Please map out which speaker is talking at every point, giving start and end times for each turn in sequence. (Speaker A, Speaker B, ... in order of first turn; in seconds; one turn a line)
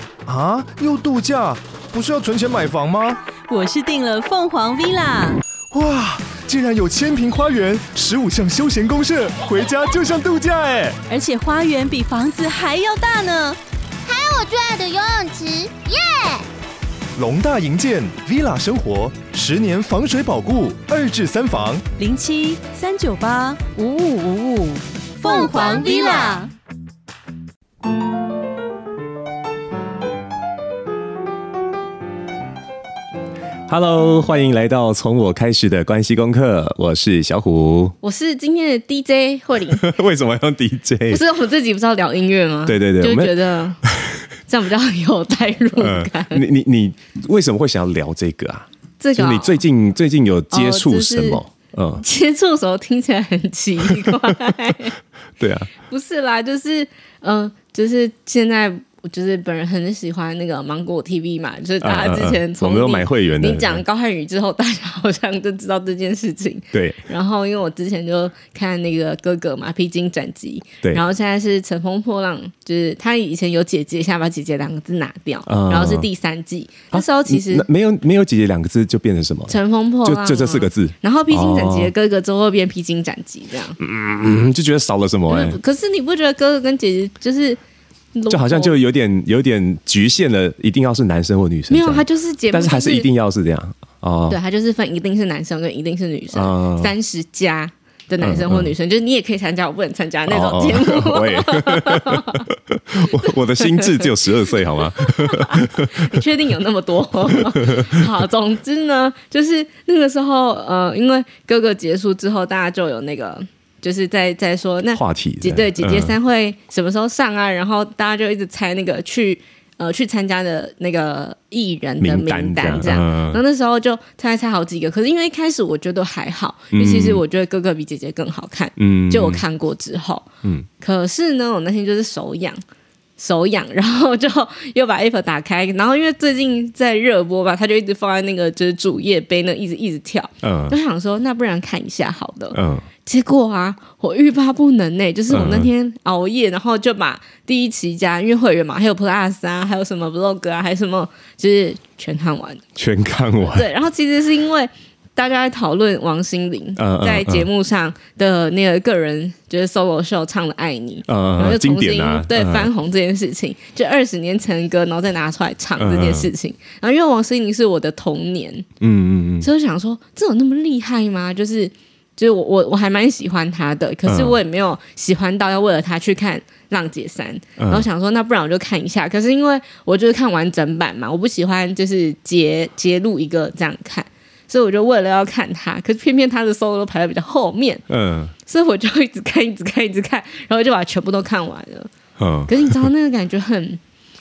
Speaker A: 0.3-3.2
Speaker B: 3.5-5.4
Speaker A: 5.7-11.0
Speaker B: 11.1-13.6
Speaker C: 14.1-16.5
Speaker A: 17.2-21.9
Speaker B: 22.0-26.5
Speaker C: 25.2-26.4
Speaker D: 33.7-38.0
Speaker E: 38.0-39.8
Speaker D: 39.7-41.2
Speaker E: 41.1-43.8
Speaker D: 42.7-44.3
Speaker E: 44.5-46.5
Speaker D: 45.8-52.0
Speaker E: 49.0-49.6
Speaker E: 50.5-51.4
Speaker E: 52.0-55.0
Speaker D: 53.9-54.1
Speaker D: 55.4-55.7
Speaker E: 55.8-77.7
Speaker D: 61.8-63.8
Speaker D: 66.7-67.0
Speaker D: 75.5-76.1
Speaker D: 76.9-81.9
Speaker E: 79.5-83.8
Speaker D: 83.8-85.6
Speaker E: 85.3-87.6
Speaker E: 88.2-88.8
Speaker D: 88.3-94.4
Speaker E: 91.7-93.1
Speaker E: 94.3-102.5
Speaker D: 96.3-96.9
Speaker D: 98.2-98.7
Speaker D: 100.3-106.2
Speaker E: 103.0-130.3
Speaker D: 107.3-108.0
Speaker D: 114.9-116.2
Speaker D: 122.0-123.4
Speaker D: 126.7-127.2
Speaker D: 128.8-129.4
Speaker E: 130.8-132.6
Speaker E: 133.2-152.6
Speaker D: 140.4-140.8
Speaker D: 142.5-142.9
Speaker D: 145.3-145.7
Speaker D: 152.8-153.7
Speaker E: 153.5-168.7
Speaker D: 156.8-157.5
Speaker D: 161.1-162.7
Speaker D: 165.8-166.3
Speaker D: 168.8-169.5
Speaker E: 169.4-187.8
Speaker D: 174.1-174.4
Speaker D: 177.6-177.9
Speaker D: 187.9-188.3
Speaker E: 188.5-191.9
Speaker D: 192.2-192.9
Speaker E: 192.5-193.8